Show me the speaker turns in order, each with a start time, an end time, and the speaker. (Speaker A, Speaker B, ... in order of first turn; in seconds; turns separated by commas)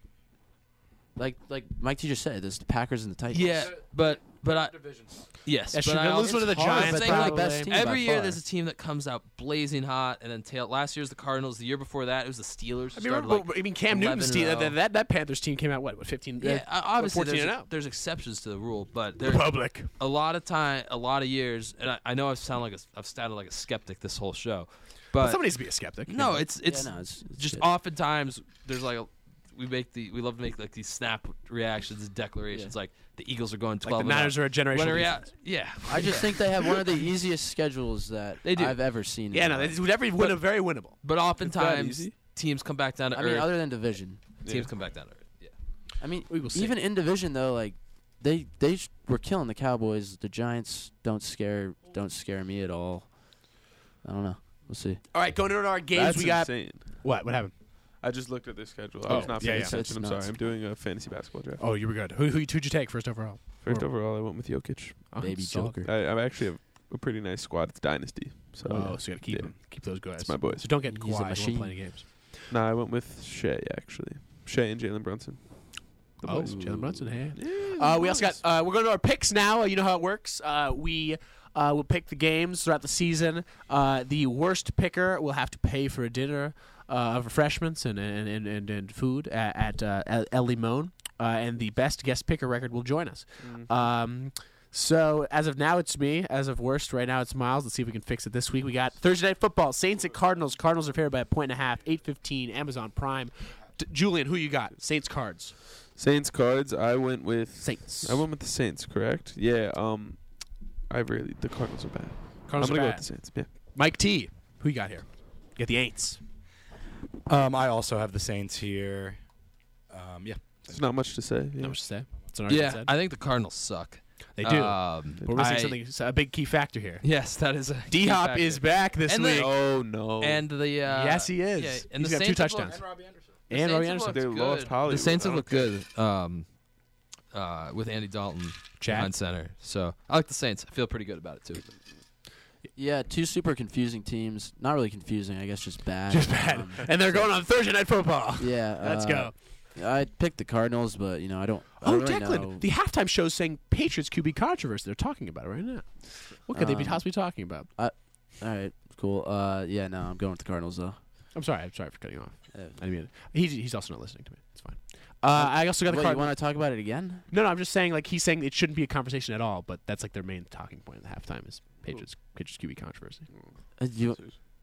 Speaker A: 1.2-3.7, Speaker B: 3.3-14.8, Speaker C: 3.8-5.2, Speaker D: 5.7-7.7, Speaker A: 6.2-8.4, Speaker D: 12.9-17.7, Speaker B: 16.4-36.9, Speaker D: 19.2-19.9, Speaker D: 25.2-26.4, Speaker A: 26.6-27.7, Speaker D: 33.8-35.3, Speaker A: 35.9-39.8, Speaker B: 38.4-38.8, Speaker D: 39.3-41.0, Speaker B: 40.2-40.4, Speaker B: 41.0-43.6, Speaker E: 41.5-42.0, Speaker D: 41.8-42.1, Speaker A: 43.1-44.2, Speaker E: 44.4-44.7, Speaker B: 44.5-45.5, Speaker A: 46.0-53.4, Speaker D: 46.3-46.8, Speaker A: 54.0-55.0, Speaker D: 55.1-57.5, Speaker E: 55.9-57.0, Speaker E: 58.0-61.6, Speaker D: 59.0-59.9, Speaker A: 59.1-60.3, Speaker D: 61.6-63.9, Speaker E: 63.6-65.2, Speaker D: 65.1-65.8, Speaker A: 65.2-65.9, Speaker E: 65.8-70.8, Speaker D: 68.7-72.4, Speaker A: 70.8-71.9, Speaker E: 72.5-78.4, Speaker D: 76.2-105.6, Speaker A: 76.5-76.9, Speaker E: 93.4-93.7, Speaker E: 105.9-113.5, Speaker D: 107.6-108.2, Speaker D: 112.5-116.2, Speaker C: 117.3-119.2, Speaker C: 119.9-120.6, Speaker E: 120.7-121.8, Speaker D: 121.6-122.9, Speaker B: 122.5-125.8, Speaker D: 124.4-127.1, Speaker E: 125.2-125.5, Speaker B: 127.0-132.8, Speaker D: 127.9-129.5, Speaker E: 129.3-130.4, Speaker D: 130.9-132.8, Speaker C: 132.7-133.4, Speaker D: 133.5-134.2, Speaker B: 133.5-136.5, Speaker E: 134.1-135.7, Speaker B: 137.3-141.7, Speaker D: 138.8-139.1, Speaker A: 142.8-147.4, Speaker D: 146.1-149.3, Speaker A: 148.4-152.7, Speaker D: 151.8-157.7, Speaker A: 156.5-157.1, Speaker A: 157.8-161.0, Speaker D: 161.3-166.3, Speaker A: 162.5-162.8, Speaker A: 165.3-167.2, Speaker D: 167.3-173.3, Speaker A: 173.8-174.4